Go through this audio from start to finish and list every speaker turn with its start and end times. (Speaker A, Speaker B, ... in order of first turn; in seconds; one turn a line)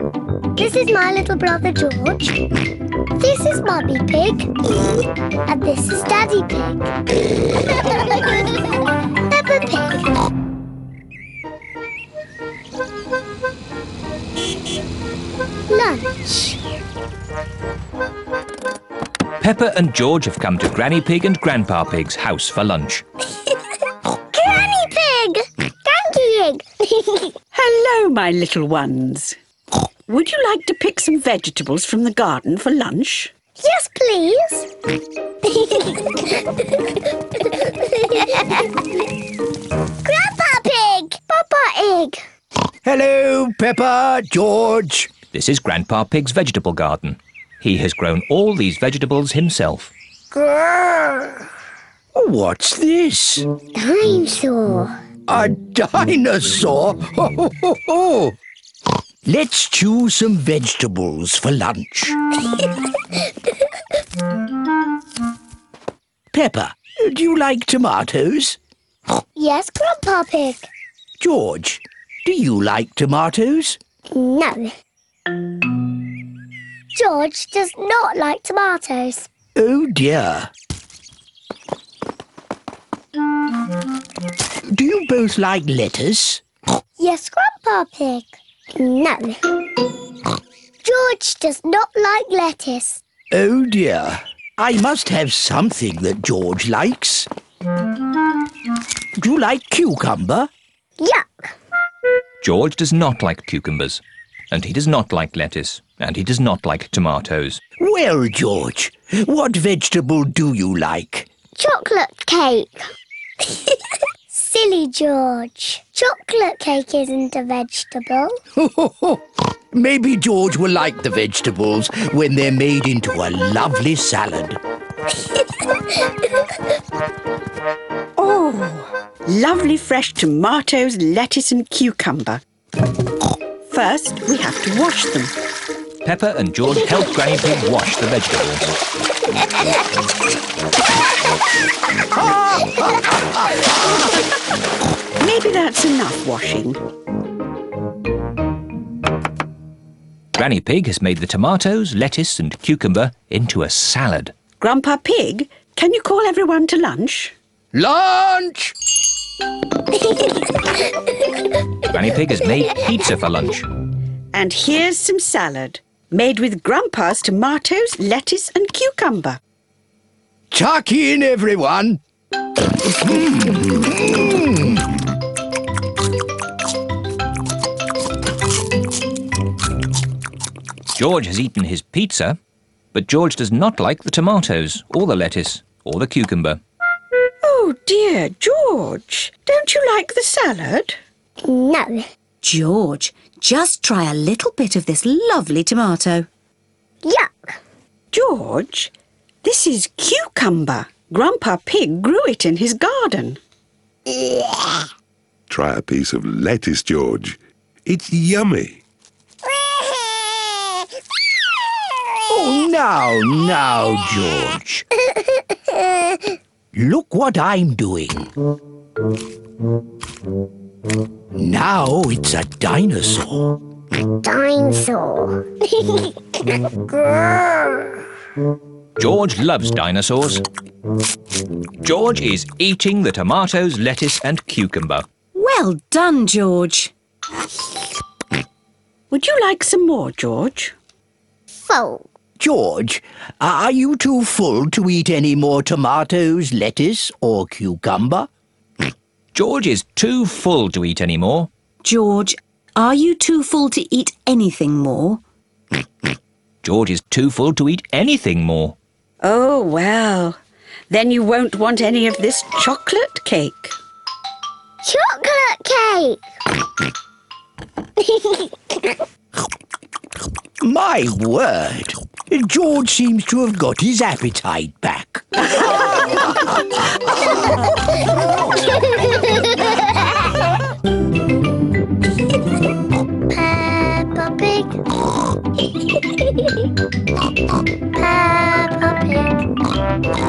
Speaker A: 0.6-2.4
Speaker A: 3.2-4.5
Speaker A: 5.5-6.9
Speaker A: 7.6-10.1
Speaker A: 15.7-16.6
Speaker B: 19.4-23.0
Speaker A: 24.1-27.3
Speaker C: 27.5-29.4
Speaker C: 30.1-33.3
Speaker A: 33.6-34.7
Speaker A: 35.4-38.7
Speaker A: 40.0-42.2
Speaker D: 42.8-45.1
Speaker B: 45.3-49.9
Speaker D: 52.1-53.5
Speaker A: 53.7-54.9
Speaker D: 55.3-58.4
Speaker D: 59.2-62.2
Speaker D: 66.3-68.6
Speaker A: 69.3-70.7
Speaker D: 71.2-73.8
Speaker A: 74.1-74.7
Speaker A: 76.9-79.3
Speaker D: 79.5-80.5
Speaker D: 84.7-86.4
Speaker A: 87.0-89.4
Speaker A: 90.8-93.0
Speaker D: 93.3-97.3
Speaker D: 99.2-100.5
Speaker A: 101.0-101.5
Speaker B: 102.4-107.6
Speaker D: 107.8-111.3
Speaker A: 111.5-112.8
Speaker A: 113.4-113.8
Speaker A: 114.3-118.4
Speaker D: 118.6-119.2
Speaker D: 119.7-124.6
Speaker C: 128.2-132.4
Speaker C: 133.7-135.3
Speaker B: 136.0-138.7
Speaker D: 142.1-143.7
Speaker C: 145.2-146.8
Speaker B: 150.3-154.3
Speaker C: 154.6-157.3
Speaker D: 157.7-158.7
Speaker A: 160.1-160.7
Speaker B: 161.8-163.7
Speaker C: 164.3-169.4
Speaker D: 170.5-172.0
Speaker D: 172.8-174.8
Speaker B: 180.9-182.4
Speaker B: 182.9-186.6
Speaker C: 187.4-191.0
Speaker A: 191.4-192.0
Speaker E: 192.4-196.3
Speaker A: 197.0-197.5
Speaker C: 198.1-198.9
Speaker C: 199.4-203.4
Speaker F: 205.5-208.8
Speaker D: 212.3-214.8
Speaker A: 215.3-216.2
Speaker D: 216.7-218.3
Speaker D: 221.3-223.6
Speaker A: 224.2-226.2
Speaker A: 226.7-227.7
Speaker B: 229.0-230.4
Speaker B: 231.8-235.1
Speaker E: 235.3-236.9
Speaker C: 239.1-240.7
Speaker A: 241.6-242.0
Speaker D: 242.4-248.3
Speaker B: 249.3-251.5
Speaker E: 251.8-255.2
Speaker B: 256.6-258.8
Speaker C: 259.2-263.8
Speaker A: 264.8-266.2
Speaker A: 268.0-268.9
Speaker D: 270.6-276.5
Speaker A: 278.6-280.3
Speaker A: 283.3-284.9
Speaker A: 285.8-286.7
Speaker A: 287.9-289.4